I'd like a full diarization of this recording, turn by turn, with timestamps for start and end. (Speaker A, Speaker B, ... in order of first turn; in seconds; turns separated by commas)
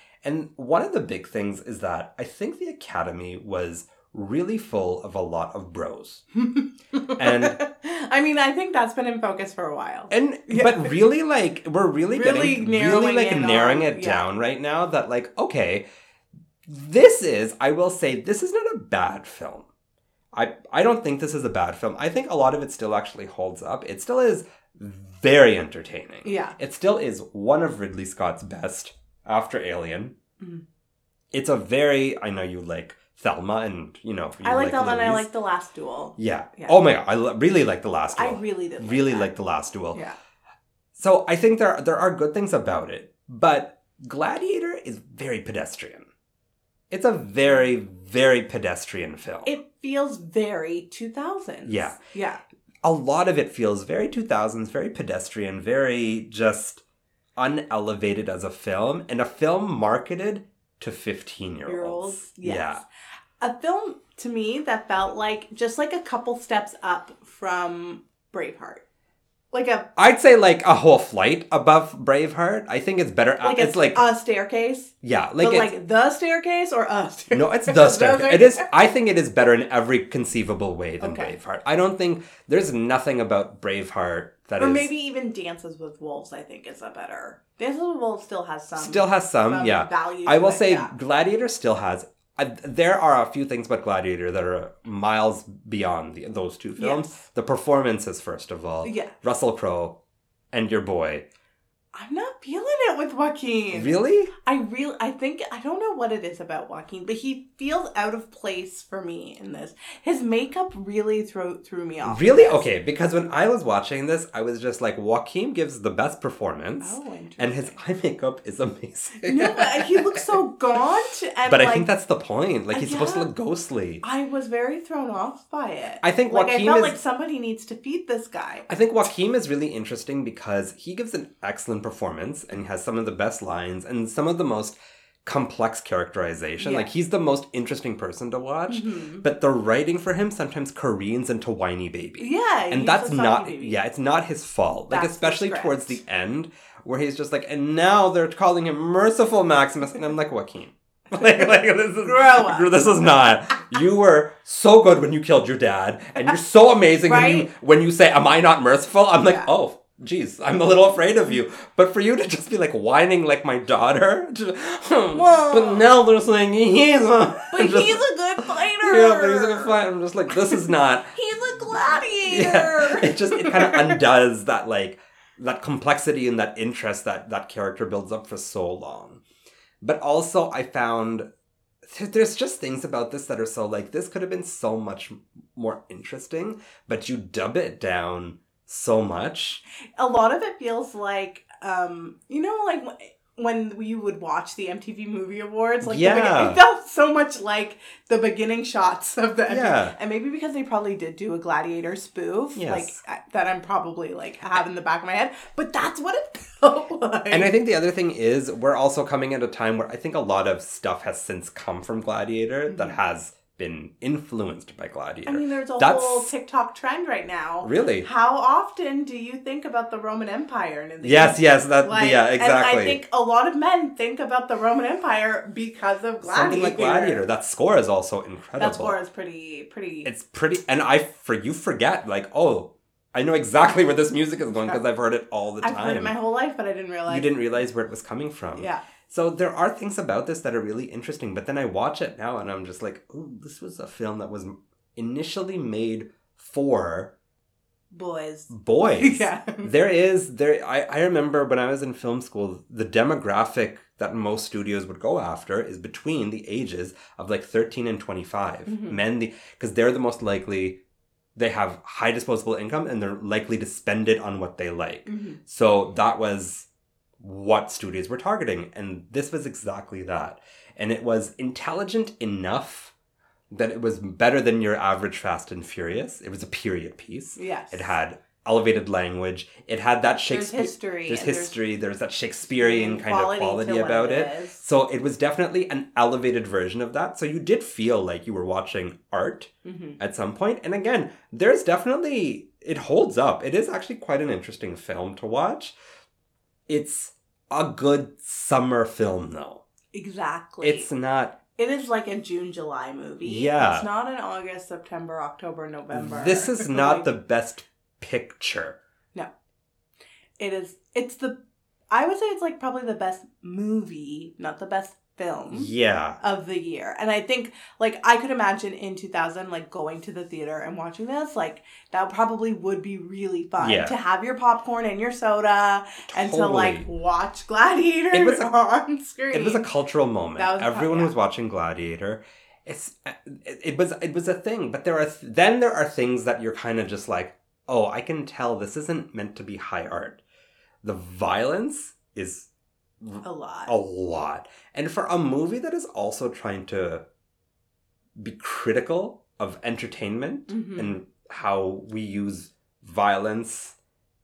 Speaker A: 0.2-6.2, Speaker B: 6.3-10.9, Speaker A: 7.2-7.6, Speaker A: 10.1-15.8, Speaker B: 12.1-14.3, Speaker A: 16.6-19.7, Speaker A: 20.3-30.1, Speaker B: 26.2-26.6, Speaker A: 31.3-35.3, Speaker B: 34.4-36.8, Speaker A: 36.2-40.0, Speaker B: 38.1-39.3, Speaker A: 41.0-46.1, Speaker A: 46.9-49.5, Speaker B: 49.4-52.4, Speaker A: 51.6-52.0, Speaker A: 52.8-56.8, Speaker A: 57.4-62.8, Speaker B: 61.6-62.9, Speaker B: 63.4-68.8, Speaker B: 69.5-69.9, Speaker A: 70.0-74.0, Speaker B: 73.4-78.7, Speaker A: 75.0-75.7, Speaker A: 77.3-84.9, Speaker B: 81.0-81.3, Speaker B: 84.6-90.9, Speaker A: 88.8-100.0, Speaker B: 96.8-97.2, Speaker B: 98.8-99.1, Speaker A: 100.5-101.2, Speaker B: 101.9-112.6, Speaker A: 103.7-104.3, Speaker A: 112.0-120.2, Speaker B: 116.8-117.8, Speaker B: 119.2-121.9, Speaker A: 121.5-124.0, Speaker B: 122.7-123.3, Speaker B: 124.0-128.7, Speaker A: 126.0-127.0, Speaker A: 128.7-171.1, Speaker B: 136.6-136.9, Speaker B: 138.7-139.2, Speaker B: 142.2-143.8, Speaker B: 144.9-146.0, Speaker B: 152.0-152.9, Speaker B: 157.1-157.5, Speaker B: 165.1-165.9, Speaker B: 167.5-169.8, Speaker B: 170.4-174.0, Speaker A: 172.3-179.2, Speaker A: 179.8-181.2, Speaker A: 181.8-189.6, Speaker B: 190.0-207.5, Speaker A: 195.8-196.6, Speaker A: 199.5-199.9, Speaker A: 202.5-203.0, Speaker A: 207.3-216.3, Speaker B: 212.7-213.0, Speaker B: 215.2-227.2, Speaker A: 217.6-218.1, Speaker A: 221.0-223.0, Speaker A: 226.2-229.0, Speaker B: 228.6-230.1, Speaker A: 230.0-236.1, Speaker B: 235.6-237.4, Speaker A: 237.1-247.1, Speaker B: 238.6-238.8, Speaker B: 247.9-249.7, Speaker A: 248.5-260.8, Speaker B: 258.7-259.0, Speaker A: 261.4-266.7, Speaker B: 265.1-265.4, Speaker A: 267.2-272.9, Speaker A: 273.5-295.7, Speaker B: 277.4-277.9, Speaker B: 280.3-281.6, Speaker B: 282.6-284.6, Speaker B: 289.6-290.0, Speaker A: 296.7-299.6, Speaker B: 299.9-300.9, Speaker A: 300.6-301.4, Speaker B: 301.6-307.1, Speaker A: 303.2-303.9, Speaker A: 305.9-308.8, Speaker B: 310.4-311.4, Speaker B: 311.9-329.7, Speaker A: 315.5-316.2, Speaker A: 323.6-324.0, Speaker A: 326.1-326.9, Speaker A: 328.1-328.5, Speaker A: 329.3-340.2, Speaker B: 330.4-331.1, Speaker A: 340.8-342.5, Speaker A: 343.0-347.0, Speaker B: 343.2-343.7, Speaker A: 348.2-353.8, Speaker B: 350.5-351.0